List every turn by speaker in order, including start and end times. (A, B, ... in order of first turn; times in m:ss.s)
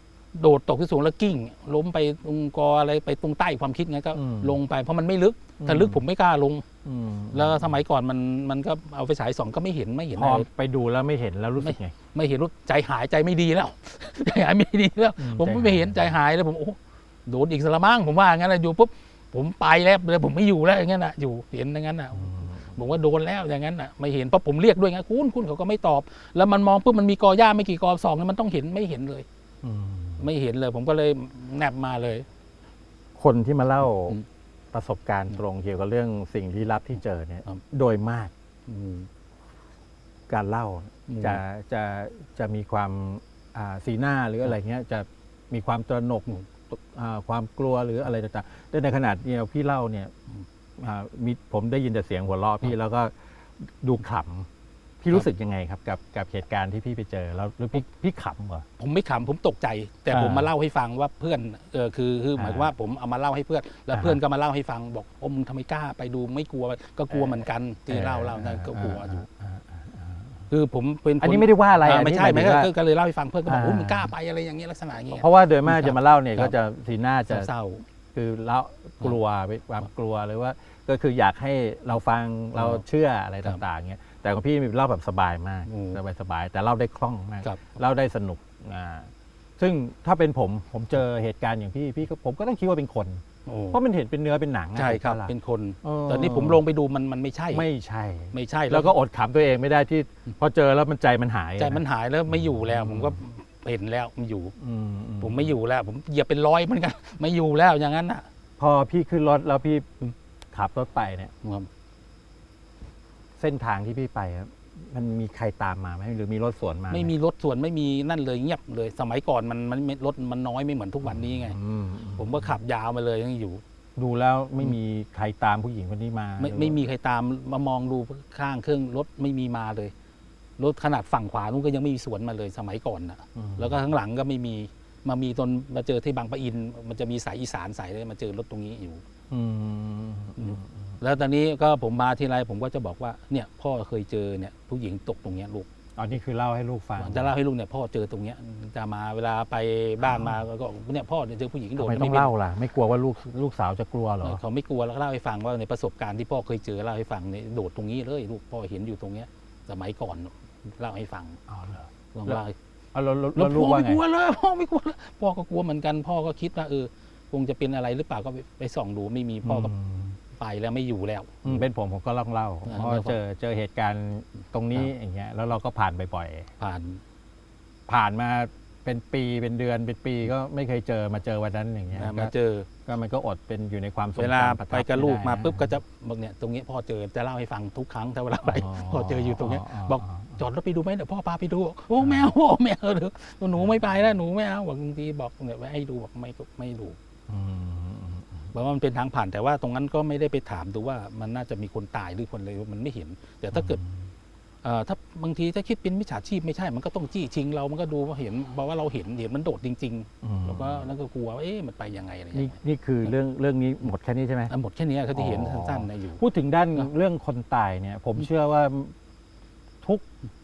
0:00.3-0:06.6 A
0:04.1-0:04.6 B
0:05.6-0:06.0 B
0:06.8-0:07.8 B
0:07.3-0:10.5 A
0:10.2-0:11.9 B
0:11.6-0:29.3 A
0:15.2-0:16.2 B
0:22.2-0:22.7 B
0:29.6-0:30.3 B
0:30.2-0:32.3 A
0:33.2-0:34.2 B
0:34.7-0:38.3 B
0:38.7-0:39.1 A
0:40.3-0:50.1 B
0:41.1-0:41.4 A
0:50.8-0:54.5 B
0:55.0-0:58.7 B
0:58.8-1:09.2 A
1:00.1-1:00.5 B
1:02.4-1:02.7 B
1:03.9-1:04.2 B
1:07.9-1:10.5 B
1:10.5-1:16.6 A
1:11.2-1:12.7 B
1:13.5-1:14.1 B
1:15.1-1:17.5 B
1:17.3-1:17.8 A
1:18.1-1:36.6 B
1:22.6-1:22.8 A
1:25.7-1:26.0 A
1:33.5-1:33.8 A
1:34.8-1:37.7 A
1:37.5-1:43.2 B
1:38.3-1:38.9 A
1:41.6-1:44.6 A
1:44.6-1:45.6 B
1:45.2-1:48.2 A
1:48.6-1:50.0 B
1:50.5-1:51.3 B
1:51.4-1:51.7 A
1:53.4-1:57.1 B
1:56.9-2:01.6 A
2:01.0-2:02.6 B
2:02.2-2:03.6 A
2:04.0-2:06.8 B
2:06.4-2:09.9 A
2:10.6-2:19.0 A
2:13.4-2:13.8 B
2:19.3-2:20.8 B
2:20.4-2:25.7 A
2:26.0-2:27.3 B
2:27.0-2:32.3 A
2:30.0-2:30.4 B
2:31.8-2:34.4 B
2:34.2-2:41.4 A
2:41.5-2:42.4 B
2:42.1-2:42.6 A
2:42.9-2:44.0 B
2:43.4-2:49.7 A
2:49.4-2:50.2 B
2:50.4-2:51.7 A
2:51.4-2:56.5 B
2:52.7-2:53.2 A
2:56.6-2:57.0 A
2:57.9-3:02.3 B
3:02.0-3:02.7 A
3:02.9-3:05.7 B
3:04.2-3:17.0 A
3:08.4-3:10.4 B
3:12.0-3:12.3 B
3:13.6-3:14.0 B
3:17.3-3:18.5 B
3:18.5-3:23.8 A
3:23.5-3:24.0 B
3:24.6-3:33.1 A
3:30.2-3:30.8 B
3:32.3-3:34.5 B
3:34.5-3:36.2 A
3:35.1-3:38.9 B